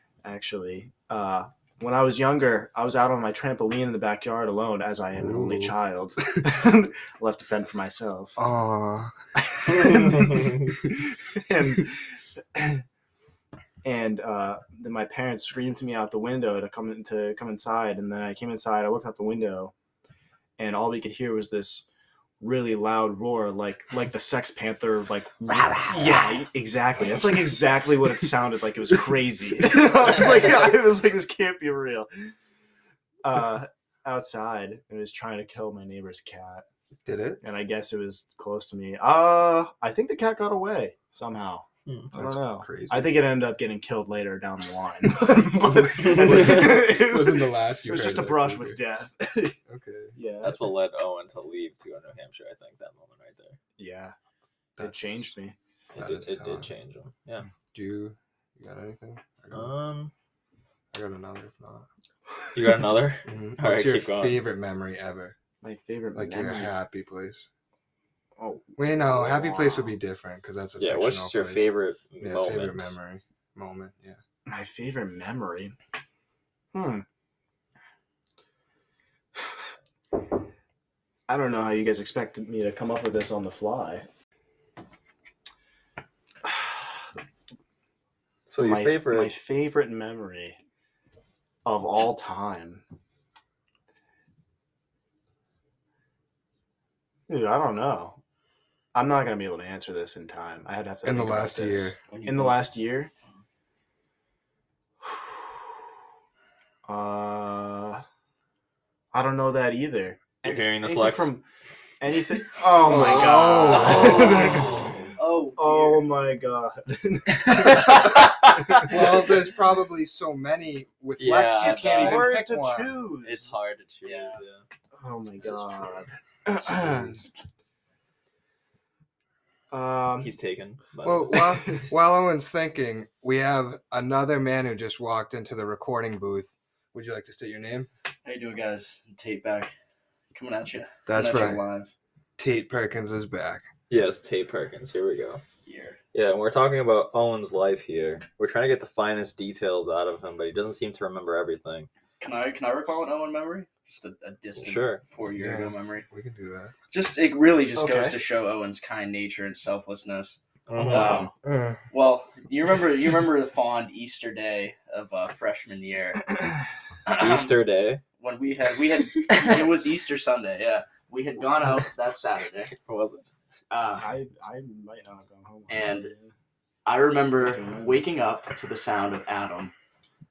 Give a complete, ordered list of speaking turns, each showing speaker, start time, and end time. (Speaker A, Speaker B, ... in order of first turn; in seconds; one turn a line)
Speaker A: 0.2-8.4
Speaker B: 5.2-5.7
Speaker B: 8.4-9.1
Speaker A: 9.4-10.6
Speaker C: 9.9-10.6
Speaker A: 11.3-12.8
Speaker A: 13.8-19.7
Speaker A: 20.6-21.8
Speaker A: 22.4-32.3
Speaker A: 33.2-36.6
Speaker B: 37.0-37.4
Speaker A: 37.4-49.6
Speaker B: 42.1-43.2
Speaker B: 45.2-48.8
Speaker B: 49.7-50.1
Speaker A: 50.1-50.5
Speaker C: 50.4-53.6
Speaker A: 53.8-54.1
Speaker B: 54.8-55.0
Speaker A: 54.8-55.5
Speaker C: 55.9-57.5
Speaker B: 56.0-56.7
Speaker B: 57.6-59.7
Speaker C: 59.5-60.1
Speaker B: 60.9-61.9
Speaker C: 62.5-64.4
Speaker B: 63.2-65.3
Speaker A: 65.6-66.7
Speaker B: 66.1-67.5
Speaker A: 68.4-70.0
Speaker B: 68.8-74.2
Speaker C: 70.8-72.9
Speaker A: 74.5-75.7
Speaker A: 76.7-77.0
Speaker A: 81.3-84.1
Speaker A: 86.4-86.9
Speaker C: 88.5-89.3
Speaker A: 88.6-90.6
Speaker A: 91.6-92.8
Speaker A: 97.3-98.2
Speaker A: 98.9-103.1
Speaker B: 101.0-102.0
Speaker D: 102.0-102.7
Speaker A: 105.0-105.3
Speaker A: 106.8-108.0
Speaker A: 109.1-111.4
Speaker C: 110.4-111.3
Speaker A: 112.0-114.8
Speaker B: 112.8-114.9
Speaker D: 113.7-116.1
Speaker C: 113.8-114.8
Speaker A: 115.5-118.1
Speaker C: 117.4-119.2
Speaker B: 118.8-123.0
Speaker C: 121.2-122.3
Speaker D: 121.6-121.9
Speaker A: 121.8-123.5
Speaker C: 123.2-124.6
Speaker D: 124.0-124.4
Speaker A: 124.9-127.2
Speaker B: 126.5-127.2
Speaker A: 129.7-130.3
Speaker C: 130.2-131.9
Speaker B: 131.0-137.9
Speaker D: 138.2-139.7
Speaker D: 140.3-141.9
Speaker B: 141.1-141.7
Speaker B: 142.4-143.7
Speaker C: 143.9-145.4
Speaker D: 145.6-146.0
Speaker C: 146.1-151.9
Speaker D: 152.2-156.1
Speaker C: 154.6-155.0
Speaker B: 155.3-156.7
Speaker D: 156.9-161.3
Speaker A: 157.7-158.2
Speaker C: 160.7-161.3
Speaker B: 161.4-161.8
Speaker D: 161.9-166.4
Speaker D: 167.1-167.6
Speaker C: 167.1-168.0
Speaker D: 168.1-172.7
Speaker C: 169.3-169.7
Speaker C: 172.7-173.2
Speaker D: 173.7-174.1
Speaker A: 174.0-176.3
Speaker D: 175.7-176.1
Speaker D: 176.8-179.7
Speaker A: 177.3-178.1